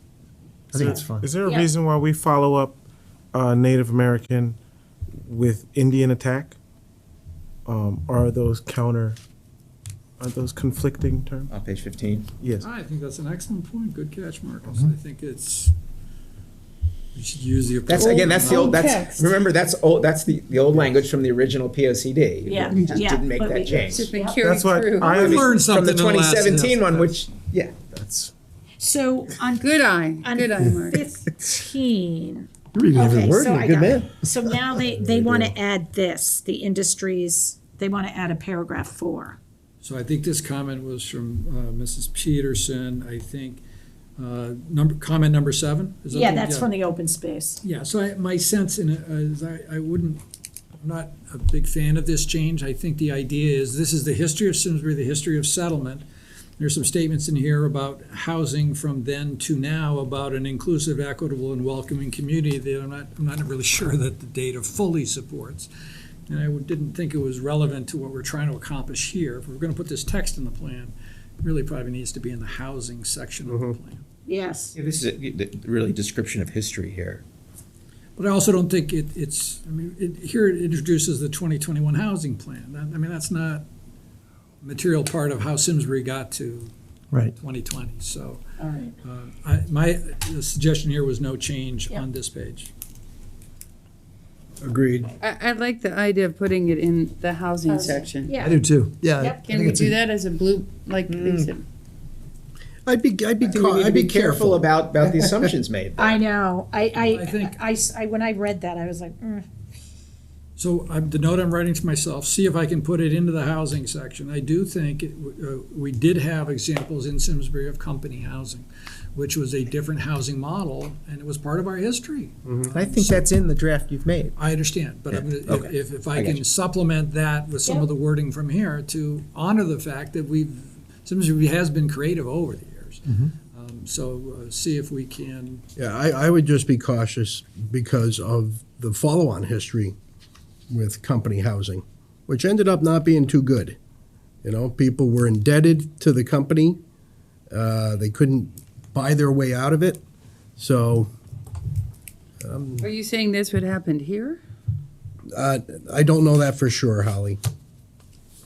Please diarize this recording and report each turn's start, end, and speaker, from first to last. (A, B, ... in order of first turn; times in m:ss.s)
0:00.7-0:01.3 A
0:00.7-0:02.8 B
0:00.8-0:01.7 C
0:03.3-0:04.6 B
0:05.2-0:06.6 B
0:07.6-0:09.2 B
0:10.2-0:11.5 B
0:11.5-0:12.3 A
0:12.4-0:12.7 B
0:12.6-0:15.7 D
0:17.1-0:18.8 D
0:17.9-0:24.1 A
0:18.4-0:19.3 E
0:22.4-0:24.4 C
0:22.7-0:23.1 E
0:23.8-0:25.5 E
0:24.4-0:25.4 B
0:25.1-0:27.9 A
0:25.2-0:27.3 D
0:28.0-0:28.3 B
0:28.8-0:39.4 C
0:29.6-0:31.1 E
0:32.9-0:34.1 A
0:39.8-0:43.6 D
0:44.2-0:46.7 D
0:46.1-0:47.6 C
0:47.6-0:50.2 D
0:50.8-0:56.0 D
0:56.6-1:05.7 D
1:06.3-1:14.0 D
1:13.5-1:13.8 F
1:14.3-1:14.8 C
1:14.7-1:17.2 A
1:18.2-1:23.6 D
1:24.6-1:26.7 D
1:27.3-1:28.4 D
1:28.6-1:28.9 C
1:29.0-1:32.7 D
1:34.6-1:35.1 F
1:35.2-1:38.5 E
1:37.7-1:38.6 C
1:38.4-1:39.9 F
1:39.3-1:41.6 E
1:41.1-1:41.5 A
1:42.8-1:45.5 F
1:43.4-1:46.2 A
1:46.0-1:49.5 C
1:47.1-1:47.6 D
1:50.6-2:03.3 D
2:02.7-2:04.4 A
2:04.4-2:15.6 D
2:05.1-2:06.4 A
2:15.8-2:20.0 F
2:20.7-2:23.8 F
2:24.4-2:26.8 F
2:27.5-2:30.0 F
2:30.6-2:31.1 F
2:32.4-2:32.9 F
2:32.8-2:34.4 E
2:35.3-2:37.4 F